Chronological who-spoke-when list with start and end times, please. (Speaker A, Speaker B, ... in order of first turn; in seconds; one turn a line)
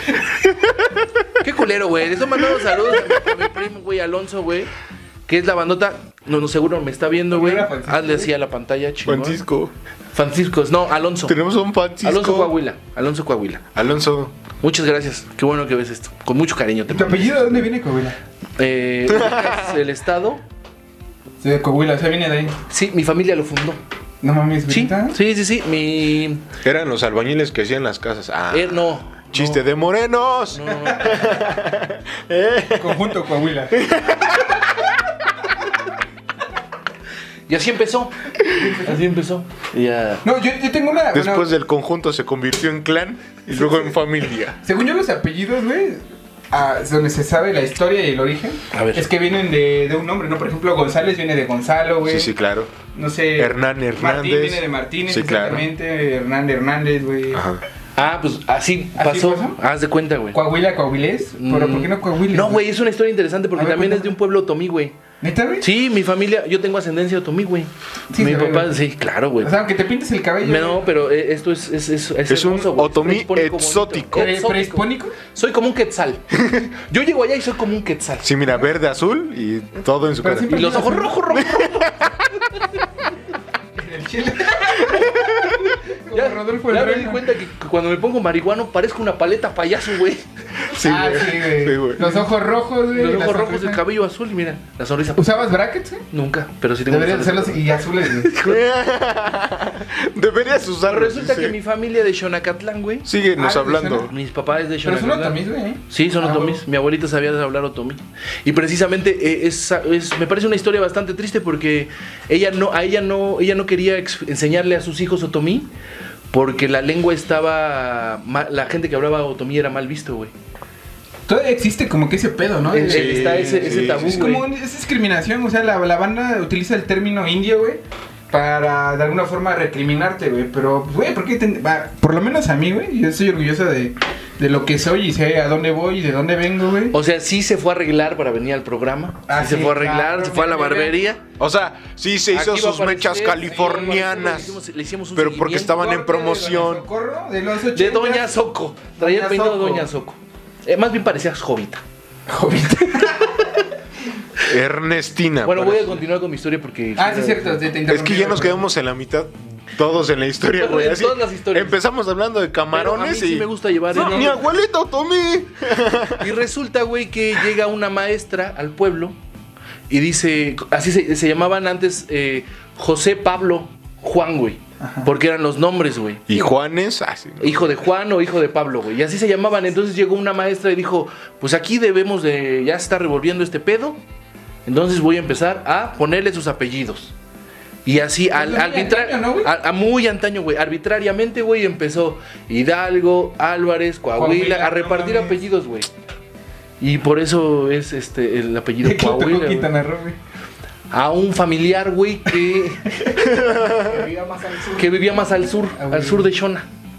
Speaker A: 0.4-1.2
Speaker B: 1.4-4.7
Speaker A: 2.9-3.2
Speaker B: 5.3-9.4
Speaker C: 7.3-8.3
Speaker A: 9.1-9.7
Speaker B: 10.1-11.4
Speaker A: 11.3-12.5
Speaker B: 12.0-13.7
Speaker A: 13.8-14.4
Speaker B: 14.6-17.6
Speaker C: 16.9-18.2
Speaker B: 18.6-20.4
Speaker A: 19.1-19.7
Speaker C: 21.4-22.6
Speaker B: 22.7-23.8
Speaker C: 24.2-25.2
Speaker B: 24.7-26.5
Speaker A: 26.6-34.6
Speaker B: 28.5-29.2
Speaker B: 30.5-31.4
Speaker C: 32.8-33.9
Speaker B: 37.5-38.2
Speaker C: 38.5-39.0
Speaker B: 38.8-40.2
Speaker C: 40.2-41.5
Speaker A: 41.1-44.6
Speaker C: 43.5-44.0
Speaker C: 44.6-52.3
Speaker B: 48.7-49.1
Speaker A: 52.0-52.7
Speaker C: 52.9-57.4
Speaker A: 53.4-55.7
Speaker A: 57.3-57.6
Speaker B: 58.0-60.4
Speaker C: 59.0-59.6
Speaker C: 60.3-62.7
Speaker B: 61.4-65.0
Speaker C: 63.5-64.2
Speaker C: 65.2-65.7
Speaker B: 65.6-69.5
Speaker C: 68.1-68.8
Speaker C: 69.4-70.9
Speaker B: 70.4-78.3
Speaker A: 72.3-74.3
Speaker C: 74.1-75.2
Speaker A: 76.4-76.7
Speaker A: 78.2-80.6
Speaker C: 80.2-81.3
Speaker B: 80.5-82.0
Speaker A: 81.3-82.1
Speaker C: 83.8-87.2
Speaker B: 85.0-90.2
Speaker A: 90.6-92.2
Speaker C: 90.8-93.8
Speaker B: 92.9-95.5
Speaker C: 95.2-96.0
Speaker B: 96.1-98.6
Speaker C: 96.9-98.3
Speaker A: 98.4-101.5
Speaker B: 100.8-103.1
Speaker A: 103.0-104.1
Speaker C: 103.4-104.1
Speaker B: 104.1-115.7
Speaker C: 104.8-106.6
Speaker B: 116.3-120.3
Speaker C: 121.3-136.9
Speaker B: 122.7-124.5
Speaker A: 122.9-124.3
Speaker B: 136.9-141.2
Speaker C: 139.3-141.0
Speaker A: 141.4-144.6
Speaker B: 142.3-145.8
Speaker C: 143.6-144.3
Speaker A: 145.1-146.9
Speaker C: 145.7-148.4
Speaker B: 147.7-151.8
Speaker C: 149.0-149.9
Speaker C: 152.3-153.7
Speaker A: 154.4-156.0
Speaker B: 155.4-157.6
Speaker C: 157.0-158.6
Speaker A: 157.9-166.3
Speaker B: 160.6-161.8
Speaker B: 162.7-164.4
Speaker C: 163.9-164.3
Speaker B: 166.2-169.2
Speaker B: 169.9-176.5
Speaker C: 174.8-175.1
Speaker A: 176.3-177.7
Speaker B: 177.4-184.0
Speaker B: 184.7-187.2
Speaker B: 187.9-195.9
Speaker C: 188.3-189.5
Speaker C: 194.2-195.4
Speaker B: 196.8-199.7
Speaker C: 198.8-200.2
Speaker B: 200.9-203.3
Speaker C: 203.0-205.0
Speaker A: 203.3-204.0
Speaker B: 204.8-206.7
Speaker C: 205.7-206.3